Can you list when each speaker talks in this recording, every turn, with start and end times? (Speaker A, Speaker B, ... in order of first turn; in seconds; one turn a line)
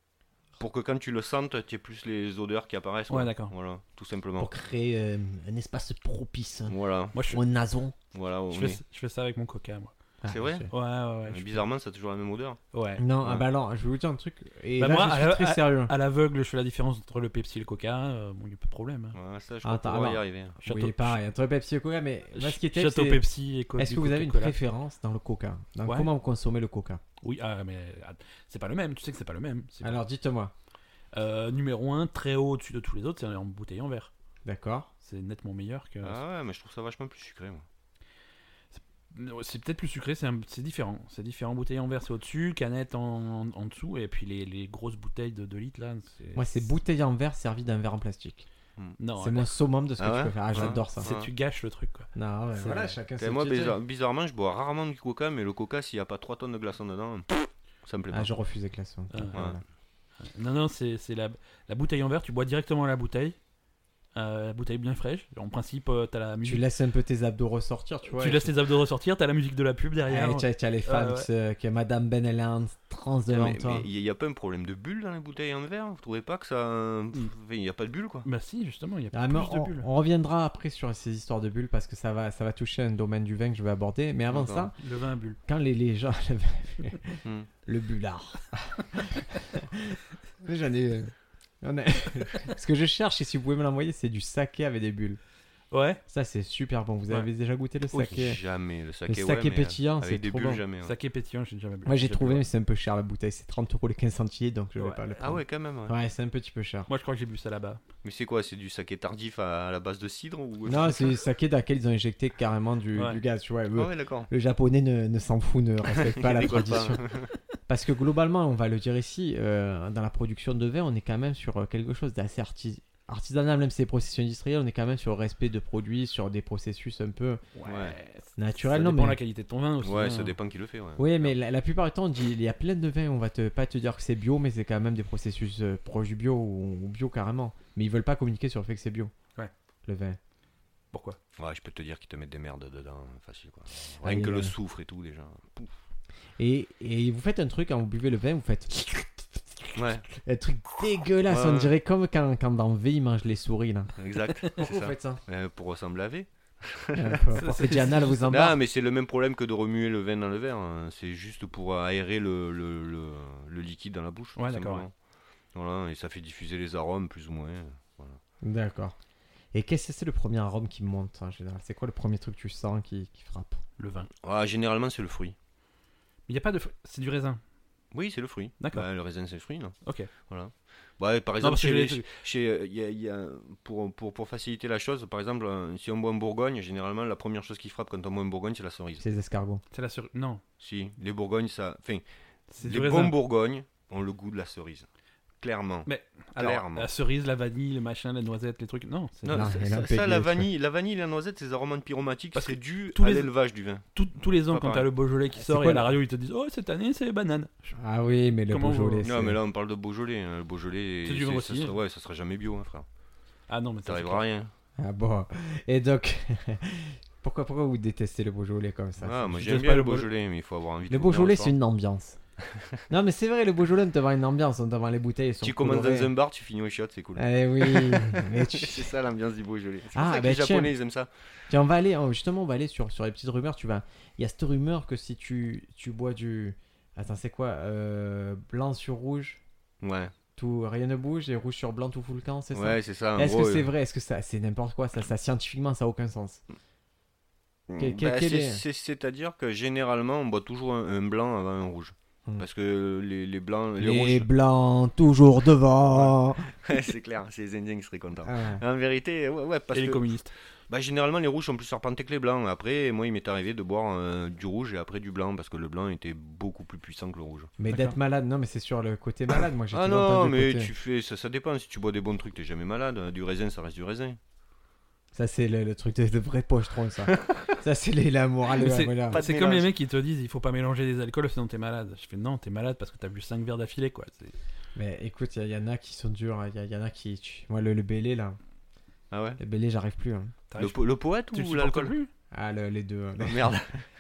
Speaker A: 0.6-4.5
Speaker B: 3.1-3.5
Speaker C: 4.4-8.0
Speaker A: 6.7-7.2
Speaker B: 7.1-7.4
Speaker A: 8.1-8.8
Speaker B: 8.5-9.9
Speaker C: 10.2-10.7
Speaker A: 10.3-10.7
Speaker B: 10.7-11.6
Speaker A: 11.3-12.6
Speaker B: 12.7-13.0
Speaker C: 13.0-15.9
Speaker B: 14.8-19.2
Speaker A: 19.1-20.6
Speaker C: 19.6-23.2
Speaker B: 20.6-21.2
Speaker B: 22.3-24.6
Speaker C: 23.8-27.0
Speaker B: 25.9-26.1
Speaker B: 27.2-30.0
Speaker C: 29.8-30.5
Speaker B: 31.1-34.1
Speaker C: 34.5-34.9
Speaker B: 35.0-36.2
Speaker A: 36.0-37.6
Speaker B: 38.7-46.7
Speaker C: 46.4-48.5
Speaker B: 49.0-49.5
Speaker C: 49.2-51.1
Speaker A: 50.0-51.3
Speaker B: 50.6-53.0
Speaker C: 52.1-53.8
Speaker A: 53.2-58.3
Speaker C: 58.1-59.6
Speaker B: 59.1-59.4
Speaker A: 59.3-59.6
Speaker B: 60.2-63.4
Speaker B: 64.1-66.6
Speaker C: 66.4-68.5
Speaker B: 68.1-71.3
Speaker C: 70.1-73.9
Speaker A: 73.3-78.3
Speaker B: 78.2-79.9
Speaker C: 79.1-84.7
Speaker A: 84.3-84.7
Speaker B: 84.8-85.4
Speaker C: 85.4-95.2
Speaker B: 95.7-96.0
Speaker C: 96.1-98.4
Speaker A: 97.9-100.9
Speaker C: 99.1-100.6
Speaker B: 100.8-102.4
Speaker C: 101.9-106.9
Speaker A: 105.1-106.0
Speaker B: 106.9-107.8
Speaker A: 108.0-111.2
Speaker C: 110.7-117.0
Speaker B: 112.9-113.2
Speaker A: 113.7-114.3
Speaker A: 116.0-117.3
Speaker C: 117.7-127.4
Speaker B: 127.5-130.3
Speaker A: 127.6-128.0
Speaker C: 128.4-129.2
Speaker A: 129.8-131.3
Speaker C: 131.0-139.1
Speaker C: 139.9-140.2
Speaker B: 140.9-141.2
Speaker A: 141.4-145.7
Speaker C: 144.0-144.6
Speaker C: 146.4-155.2
Speaker A: 149.8-150.1
Speaker A: 151.3-151.7
Speaker A: 154.0-157.4
Speaker C: 156.9-158.6
Speaker B: 157.4-158.2
Speaker A: 158.3-164.9
Speaker B: 164.4-164.9
Speaker A: 165.5-168.2
Speaker C: 168.4-169.0
Speaker C: 169.5-173.6
Speaker B: 173.8-174.1
Speaker A: 174.2-175.4
Speaker B: 176.3-177.4
Speaker A: 177.9-179.7
Speaker B: 178.6-178.9
Speaker B: 179.8-180.1
Speaker A: 180.3-189.1
Speaker B: 181.4-182.1
Speaker C: 189.0-189.6
Speaker B: 189.7-190.4
Speaker A: 190.6-192.0
Speaker B: 192.5-193.1
Speaker A: 192.6-194.9
Speaker A: 195.4-196.9
Speaker B: 195.9-199.5
Speaker A: 199.2-204.9
Speaker C: 199.3-200.5
Speaker B: 202.3-203.3
Speaker B: 203.9-207.7
Speaker C: 205.3-205.9
Speaker C: 207.8-209.4
Speaker B: 208.5-209.1
Speaker A: 209.0-212.9
Speaker B: 211.0-211.7
Speaker B: 213.5-214.2
Speaker A: 213.9-214.5
Speaker C: 214.8-220.1
Speaker A: 219.0-221.6
Speaker C: 220.9-222.2
Speaker A: 222.5-222.8
Speaker C: 222.9-226.1
Speaker A: 225.4-231.1
Speaker C: 227.2-228.9
Speaker C: 229.9-230.7
Speaker C: 231.5-239.4
Speaker A: 239.8-240.1
Speaker C: 240.4-246.4
Speaker A: 242.5-243.7
Speaker A: 247.7-254.3
Speaker C: 247.8-248.6
Speaker C: 253.8-256.5
Speaker A: 255.9-267.5
Speaker C: 258.2-258.6
Speaker B: 259.7-260.3
Speaker C: 267.6-270.7
Speaker B: 267.7-267.9
Speaker A: 269.7-274.2
Speaker C: 275.1-279.2
Speaker A: 277.1-277.5
Speaker B: 278.6-284.4
Speaker A: 279.1-279.7
Speaker C: 284.7-288.4
Speaker A: 289.1-289.4
Speaker C: 289.4-290.3
Speaker B: 290.5-292.1
Speaker A: 290.6-291.9
Speaker C: 292.3-293.5
Speaker A: 293.2-293.8